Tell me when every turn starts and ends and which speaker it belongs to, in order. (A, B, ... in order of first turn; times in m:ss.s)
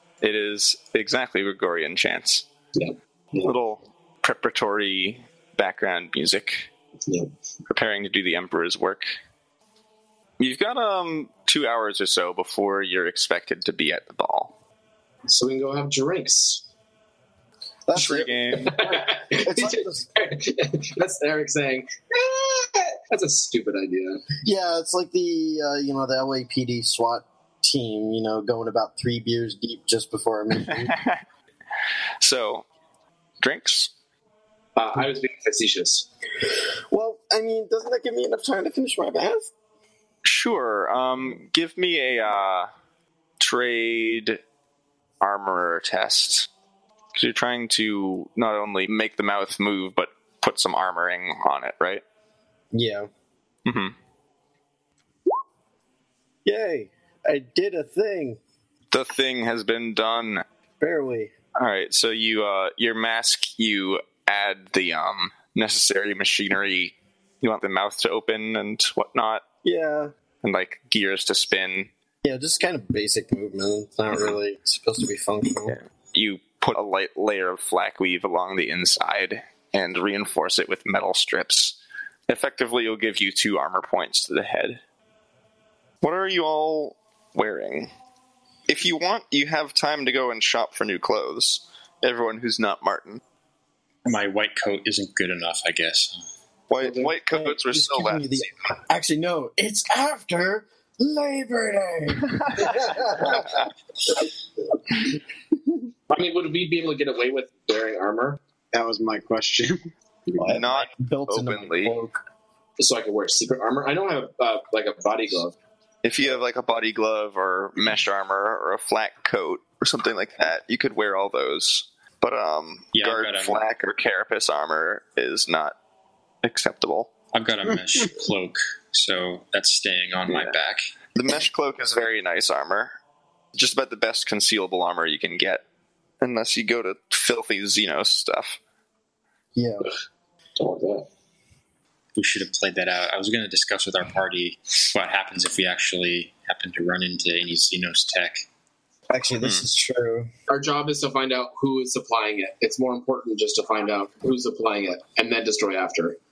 0:00.2-0:02.5 A
0:02.8-0:03.5 B
0:03.4-0:06.7 A
0:07.7-0:09.1 A
0:10.4-0:14.6 A
0:15.3-0:16.6 B
0:17.9-0:20.1 C
0:18.0-0:18.8 A
0:18.5-0:24.3 B
0:24.4-0:31.0 C
0:30.6-0:31.2 A
0:32.2-0:32.7 A
0:33.4-0:33.9 A
0:34.8-0:36.1 B
0:36.5-0:39.5 C
0:40.2-0:42.7 A
0:43.4-0:44.4 A
0:45.2-0:46.5 A
0:47.2-0:52.0 A
0:52.7-0:53.1 C
0:53.7-0:54.0 A
0:56.4-0:58.4 C
0:58.9-1:00.4 A
1:00.8-1:01.3 C
1:01.6-1:09.4 A
1:09.6-1:10.1 C
1:10.4-1:11.9 A
1:12.2-1:15.8 C
1:15.7-1:21.8 A
1:22.3-1:24.8 A
1:26.0-1:27.9 A
1:28.7-1:33.2 A
1:34.0-1:36.2 D
1:36.7-1:38.5 A
1:36.8-1:37.1 B
1:37.3-1:43.7 C
1:42.3-1:43.6 A
1:46.1-1:48.4 B
1:48.7-1:50.7 E
1:50.4-1:52.0 A
1:50.5-1:52.2 C
1:52.8-1:55.6 B
1:56.0-2:05.8 A
2:03.0-2:03.6 D
2:06.4-2:07.1 A
2:07.3-2:10.8 D
2:10.3-2:10.5 A
2:11.1-2:12.9 A
2:13.5-2:15.6 A
2:16.2-2:18.6 A
2:19.6-2:19.9 C
2:20.6-2:21.1 B
2:22.2-2:28.4 D
2:29.1-2:30.3 C
2:29.4-2:29.7 A
2:30.5-2:36.2 B